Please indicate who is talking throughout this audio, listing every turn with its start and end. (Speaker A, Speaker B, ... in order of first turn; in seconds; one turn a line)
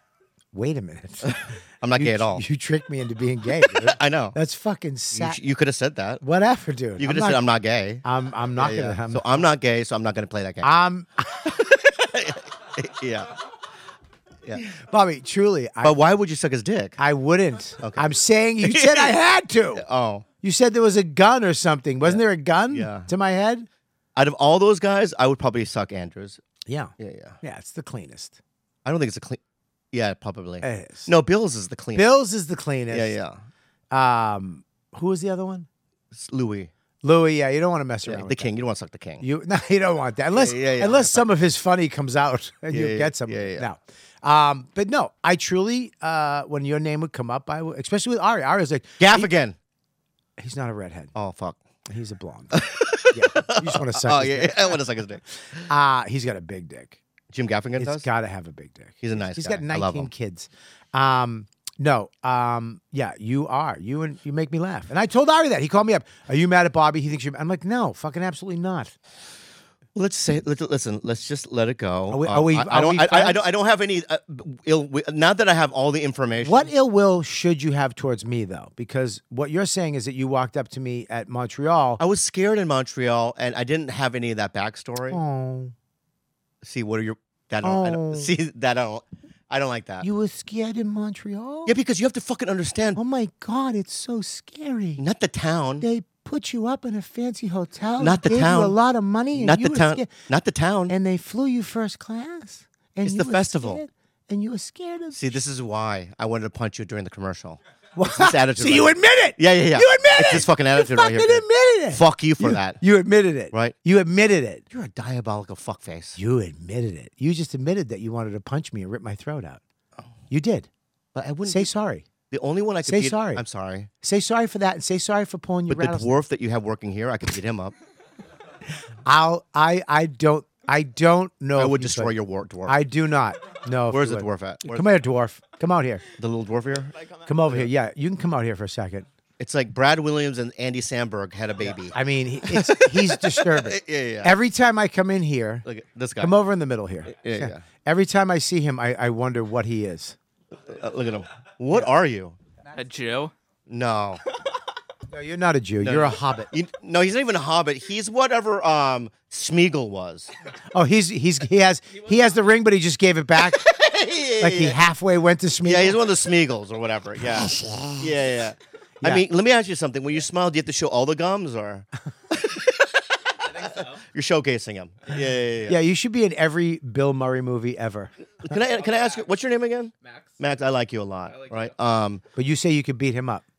Speaker A: 0.5-5.4
Speaker B: 1.2-2.4
Speaker B: 3.6-4.4
Speaker B: 5.1-6.2
Speaker A: 6.2-7.4
Speaker B: 7.0-8.0
Speaker A: 8.0-9.5
Speaker B: 8.6-10.7
Speaker A: 10.6-11.6
Speaker B: 11.6-13.3
Speaker A: 14.6-16.0
Speaker B: 15.8-17.0
Speaker A: 17.0-19.9
Speaker B: 17.8-18.1
Speaker B: 18.6-19.1
Speaker B: 19.7-20.3
Speaker A: 20.4-23.7
Speaker B: 22.0-23.1
Speaker B: 24.2-26.4
Speaker A: 26.7-28.4
Speaker B: 27.0-27.4
Speaker B: 28.9-29.4
Speaker B: 29.9-32.1
Speaker A: 30.6-31.1
Speaker A: 31.9-33.2
Speaker B: 32.9-33.4
Speaker A: 33.9-35.7
Speaker B: 36.1-36.7
Speaker A: 37.0-38.5
Speaker B: 38.0-39.2
Speaker A: 39.2-49.3
Speaker B: 40.3-41.2
Speaker B: 42.7-43.7
Speaker B: 49.0-49.6
Speaker A: 50.4-51.1
Speaker B: 51.1-51.6
Speaker A: 51.9-54.8
Speaker B: 52.5-55.2
Speaker A: 55.6-57.0
Speaker B: 57.3-58.1
Speaker A: 57.8-68.9
Speaker B: 59.0-60.1
Speaker B: 70.0-76.7
Speaker A: 72.1-73.4
Speaker A: 76.4-82.0
Speaker B: 82.0-85.2
Speaker A: 85.1-85.7
Speaker B: 86.6-90.1
Speaker A: 87.6-88.3
Speaker A: 90.0-91.8
Speaker B: 91.7-93.0
Speaker A: 93.0-95.0
Speaker B: 95.0-95.9
Speaker A: 95.8-100.1
Speaker B: 98.0-98.8
Speaker B: 99.3-101.0
Speaker A: 100.9-105.2
Speaker B: 103.0-103.8
Speaker B: 105.1-107.6
Speaker A: 108.0-114.6
Speaker B: 108.1-112.8
Speaker B: 114.7-116.2
Speaker A: 116.2-119.6
Speaker A: 120.3-120.7
Speaker B: 121.2-121.7
Speaker A: 121.5-122.1
Speaker B: 122.3-123.9
Speaker A: 122.8-123.4
Speaker A: 124.0-126.1
Speaker B: 125.7-127.7
Speaker A: 129.1-132.1
Speaker B: 131.6-132.8
Speaker A: 132.7-136.1
Speaker B: 133.9-134.9
Speaker B: 136.2-136.9
Speaker C: 137.0-137.3
Speaker A: 137.3-139.1
Speaker B: 139.4-144.4
Speaker A: 141.9-145.6
Speaker B: 145.7-146.4
Speaker A: 146.2-150.2
Speaker B: 147.1-147.6
Speaker B: 150.5-152.4
Speaker C: 152.7-153.3
Speaker B: 153.7-154.2
Speaker A: 155.1-156.5
Speaker B: 155.8-160.3
Speaker A: 160.7-163.7
Speaker C: 161.9-162.4
Speaker B: 163.4-164.8
Speaker A: 164.4-166.0
Speaker B: 165.6-175.8
Speaker A: 167.3-168.1
Speaker C: 173.4-174.1
Speaker A: 175.7-178.1
Speaker B: 178.4-182.2
Speaker C: 178.5-179.3
Speaker C: 180.0-180.4
Speaker C: 181.2-181.7
Speaker A: 182.3-183.4